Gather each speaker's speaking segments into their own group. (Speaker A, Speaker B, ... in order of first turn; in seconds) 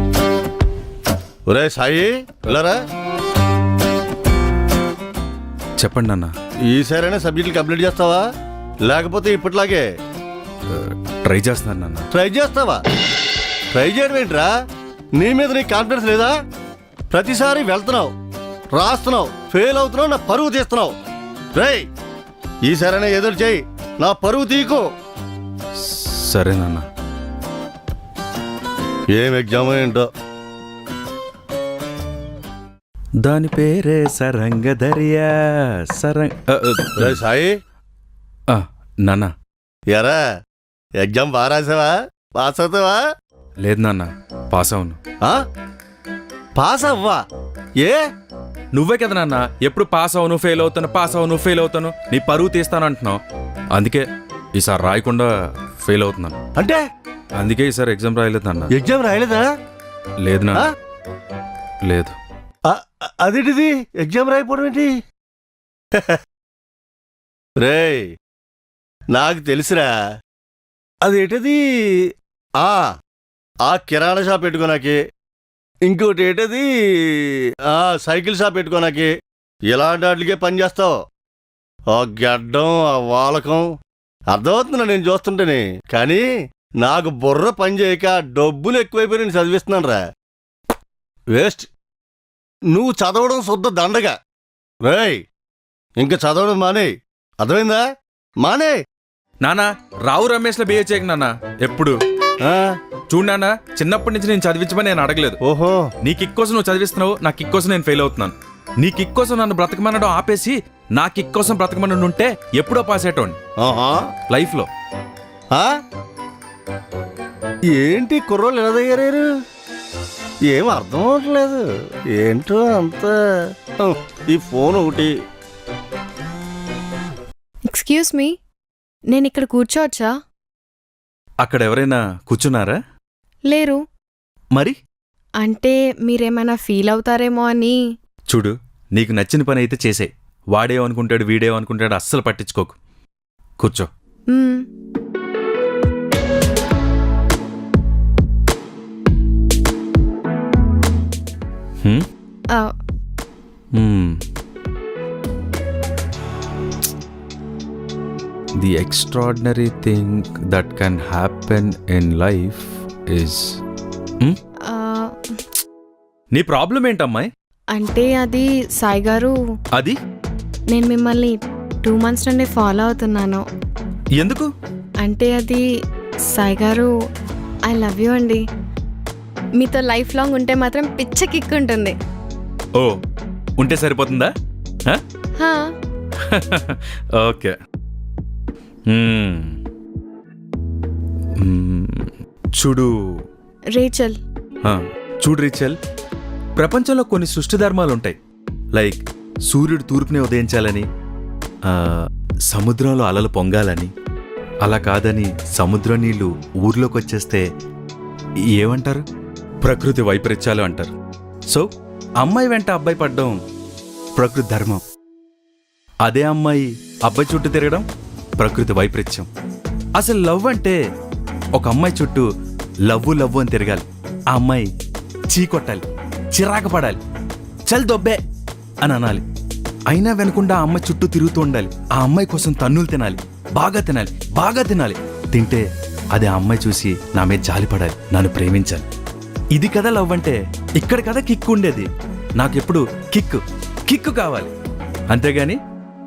Speaker A: 1.5-2.8, 6.7-8.2, 8.8-9.9, 12.1-12.8, 13.7-14.5, 15.2-16.3, 17.1-18.1, 18.7-20.9, 21.6-21.9, 22.6-24.9, 29.1-30.1, 37.0-37.5, 39.9-40.2, 41.0-43.0, 46.6-47.2, 56.5-56.8, 58.7-59.5, 62.7-64.9, 67.6-68.1, 69.1-69.9, 71.0-72.9, 73.6-75.0, 75.9-79.1, 79.7-81.0, 81.9-83.7, 84.3-86.3, 86.8-90.0, 91.3-91.7, 92.7-94.2, 94.8-95.2, 96.0-97.8, 98.4-98.8, 102.4-102.8, 105.4-105.9, 113.6-114.1, 117.7-119.3, 120.5-123.2, 123.8-125.1
Speaker B: 5.8-6.3, 10.7-12.1, 25.8-26.8, 33.2-37.2, 38.5-39.3, 43.6-45.0, 48.7-53.2, 53.7-56.4, 57.4-58.7, 60.2-60.7, 61.8-62.1, 99.4-101.9, 103.1-105.4, 106.0-113.4, 114.3-114.7, 131.4-132.8, 138.3-142.8, 143.6-143.9, 153.7-154.2, 158.6-163.6, 166.3-167.3, 174.2-174.5, 183.6-184.3, 186.2-187.5, 188.9-189.6, 191.4-193.2, 194.6-195.8, 196.6-198.2, 198.7-200.9, 201.6-203.9, 204.6-207.5, 208.5-209.0, 209.6-210.9, 212.2-213.4, 214.2-214.8, 216.0-217.8, 218.4-219.3, 219.9-220.8, 221.5-222.3, 222.8-224.7, 225.3-227.0, 227.7-228.2, 228.8-229.2, 229.9-238.8, 239.5-244.5, 245.1-245.6
Speaker C: 127.7-128.3, 129.1-130.1, 133.5-133.8, 135.4-137.8, 144.3-144.6, 164.7-165.1, 167.7-169.4, 170.7-173.4, 175.0-175.6, 176.3-176.9, 177.7-178.4, 179.6-181.9, 185.4-185.7, 193.7-194.2